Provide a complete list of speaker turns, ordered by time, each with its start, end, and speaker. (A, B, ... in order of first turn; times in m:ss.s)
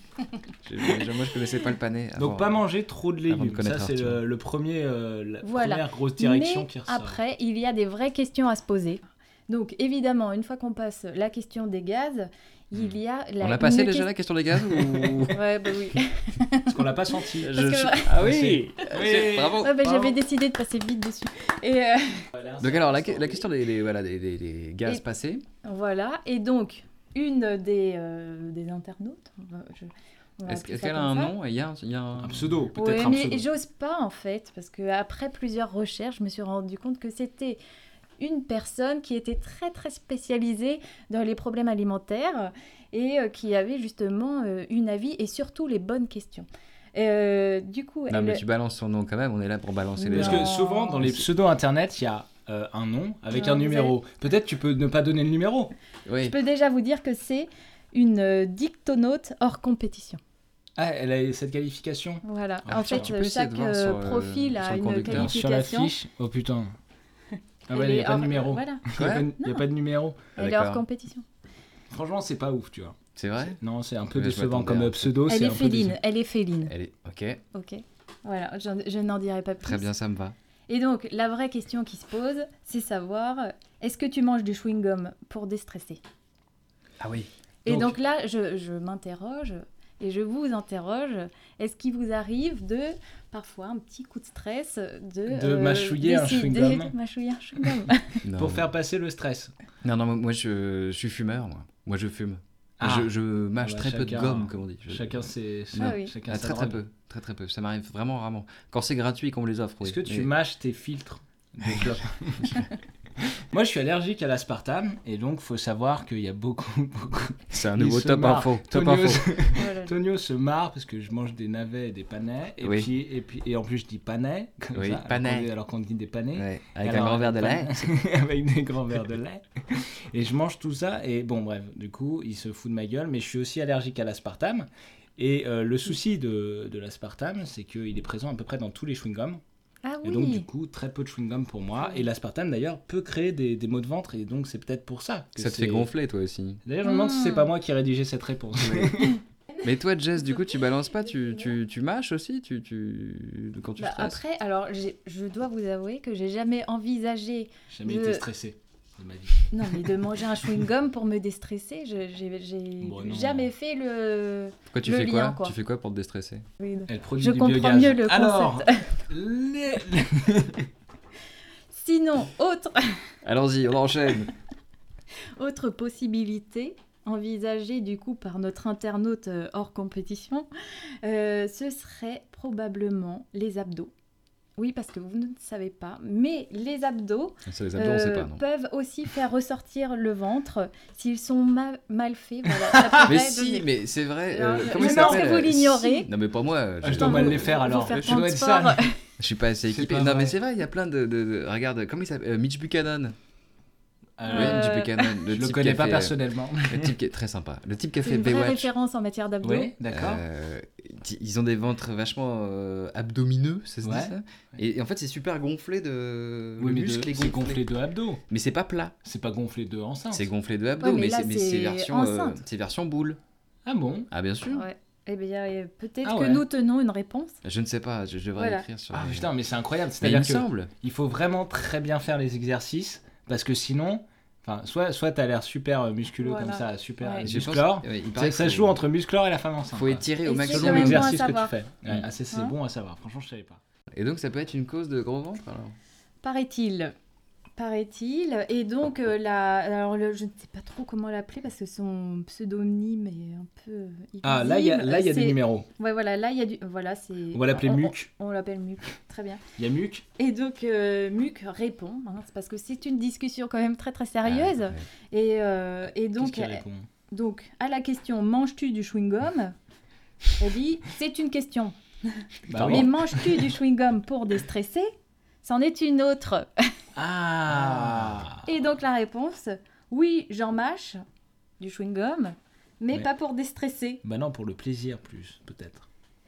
0:00.6-0:02.6 A
0:02.2-0:07.2 B
0:03.3-0:04.2 A
0:05.4-0:14.1 C
0:12.8-0:15.4 A
0:15.0-0:18.2 C
0:16.7-0:17.5 B
0:17.4-0:19.9 A
0:18.1-0:20.2 B
0:19.4-0:22.3 C
0:22.3-0:23.5 B
0:22.6-0:25.5 A
0:25.6-0:31.3 C
0:30.5-0:33.2 A
0:32.2-0:33.5 B
0:32.8-0:37.6 C
0:38.2-0:48.4 C
0:48.1-0:51.2 A
0:50.0-0:51.0 C
0:50.1-0:55.7 B
0:53.3-0:54.0 C
0:56.1-0:56.4 A
0:56.2-1:00.2 C
1:00.8-1:03.1 B
1:02.2-1:05.9 C
1:02.7-1:05.3 A
1:05.0-1:06.7 B
1:07.7-1:08.8 C
1:07.7-1:10.3 B
1:08.9-1:09.3 A
1:09.4-1:09.6 C
1:10.4-1:10.8 A
1:10.4-1:11.2 C
1:11.9-1:16.0 B
1:13.2-1:13.6 A
1:14.1-1:15.1 A
1:15.3-1:16.7 C
1:16.7-1:17.4 A
1:17.5-1:19.9 C
1:19.6-1:20.4 A
1:20.7-1:26.0 C
1:27.0-1:27.3 A
1:27.6-1:38.2 C
1:27.7-1:28.0 B
1:35.3-1:36.9 B
1:38.2-1:38.7 A
1:38.3-1:39.5 B
1:39.8-1:45.2 A
1:42.8-1:46.8 B
1:45.8-1:46.1 C
1:45.8-1:50.3 A
1:49.8-1:52.7 B
1:53.4-2:19.4 B
1:57.5-1:59.5 A
1:59.5-2:00.0 C
2:02.6-2:02.9 A
2:04.7-2:05.5 A
2:06.3-2:08.0 A
2:19.8-2:20.5 C
2:20.0-2:25.9 B
2:25.4-2:26.6 A
2:26.6-2:29.2 B
2:26.8-2:27.5 C
2:28.6-2:29.1 A
2:29.6-2:34.2 A
2:33.8-2:38.3 C
2:37.7-2:40.6 B
2:39.5-2:45.6 C
2:42.8-2:43.5 B
2:44.7-2:46.4 A
2:46.6-2:48.9 C
2:46.9-2:50.7 B
2:51.7-2:53.0 C
2:53.2-2:54.3 A
2:55.4-3:00.5 C
3:01.0-3:03.9 C
3:04.6-3:13.7 C
3:07.5-3:08.4 A
3:12.7-3:13.1 B
3:13.0-3:18.2 A
3:14.3-3:16.1 C
3:14.7-3:15.6 B
3:16.8-3:18.9 B
3:17.0-3:19.0 C
3:19.2-3:23.2 A
3:19.7-3:20.4 B
3:24.2-3:24.8 B
3:24.3-3:25.2 C
3:24.3-3:28.7 A
3:25.3-3:27.0 B
3:28.0-3:29.7 C
3:29.4-3:30.2 B
3:29.9-3:37.6 A
3:33.8-3:34.1 B
3:36.6-3:38.2 B
3:38.3-3:38.9 A
3:39.0-3:40.3 B
3:40.1-3:43.2 A
3:40.8-3:42.4 C
3:43.7-3:44.1 B
3:44.1-3:44.7 A
3:44.5-3:47.4 C
3:46.0-3:46.4 B
3:47.4-3:49.3 A
3:48.4-3:48.6 C
3:48.9-4:03.6 B
3:50.0-3:50.7 A
3:56.2-3:57.3 C
3:57.2-3:58.8 A
3:59.7-4:01.1 A
4:00.2-4:01.5 C
4:03.9-4:05.8 A
4:06.2-4:06.9 C
4:07.6-4:19.4 C
4:14.2-4:15.7 B
4:17.3-4:18.1 B
4:19.6-4:20.0 B
4:20.2-4:29.6 C
4:24.2-4:24.9 A
4:26.2-4:26.9 B
4:30.4-4:34.9 C
4:32.5-4:33.5 B
4:32.5-4:32.9 A
4:35.4-4:36.7 C
4:37.0-4:38.5 B
4:38.4-4:41.0 C
4:41.6-4:44.0 C
4:44.0-4:45.9 B